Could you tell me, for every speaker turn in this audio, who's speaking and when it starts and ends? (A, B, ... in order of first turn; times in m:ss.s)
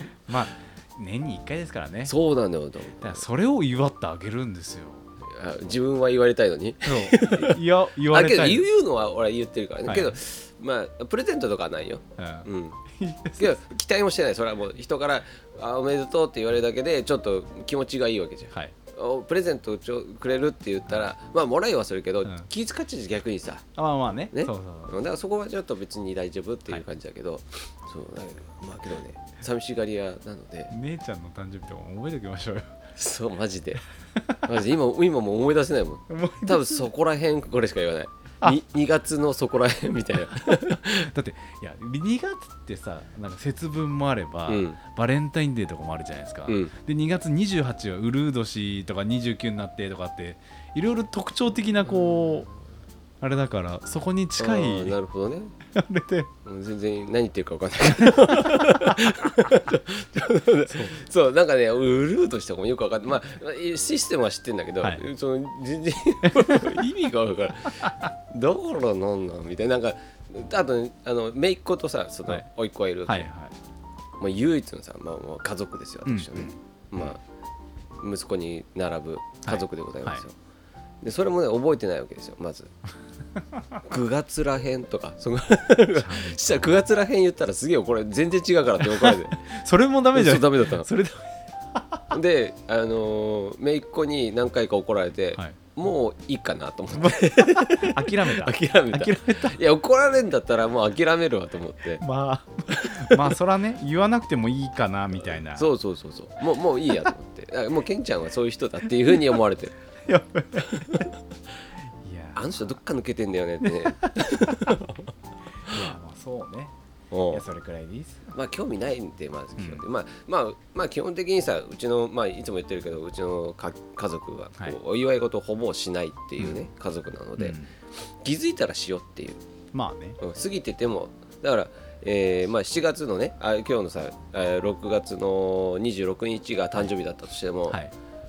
0:00.3-0:02.1 A
0:02.0-0:03.2 B
0:03.0-0:05.1 A
0:05.2-0:12.8 B
0:06.8-0:08.7 A
0:09.8-0:10.2 A
0:12.2-0:13.6 A
0:13.4-0:23.6 B
0:23.8-0:24.9 A
0:24.3-0:30.7 B
0:30.7-0:32.7 A
0:33.0-0:33.8 B
0:34.1-0:34.4 A
0:34.4-0:41.1 B
0:36.1-0:36.8 A
0:41.0-0:52.5 A
0:44.5-0:44.8 B
0:46.5-0:46.7 B
0:51.9-0:52.3 B
0:53.2-0:55.0 A
0:54.4-0:55.5 B
0:55.7-0:56.3 A
0:56.4-1:13.3 B
0:58.0-0:59.0 A
1:06.3-1:07.1 A
1:13.1-1:13.5 A
1:14.2-1:17.2 B
1:16.0-1:17.1 A
1:18.0-1:20.3 B
1:19.4-1:20.2 A
1:21.0-1:22.7 B
1:23.8-1:29.4 B
1:25.9-1:26.9 A
1:28.8-1:32.1 A
1:30.1-1:30.9 B
1:32.1-1:42.0 B
1:37.0-1:39.6 A
1:42.0-1:45.7 A
1:42.7-1:43.2 B
1:45.5-1:49.7 B
1:50.0-1:51.1 A
1:50.6-1:51.1 B
1:51.9-1:52.8 A
1:52.3-1:55.0 B
1:53.6-1:54.9 A
1:55.6-1:56.7 A
1:57.1-1:57.4 B
1:57.3-1:58.3 A
1:58.3-2:07.6 B
1:59.6-1:59.8 A
2:07.4-2:07.7 A
2:08.2-2:09.4 B
2:09.7-2:10.2 A
2:10.2-2:17.8 B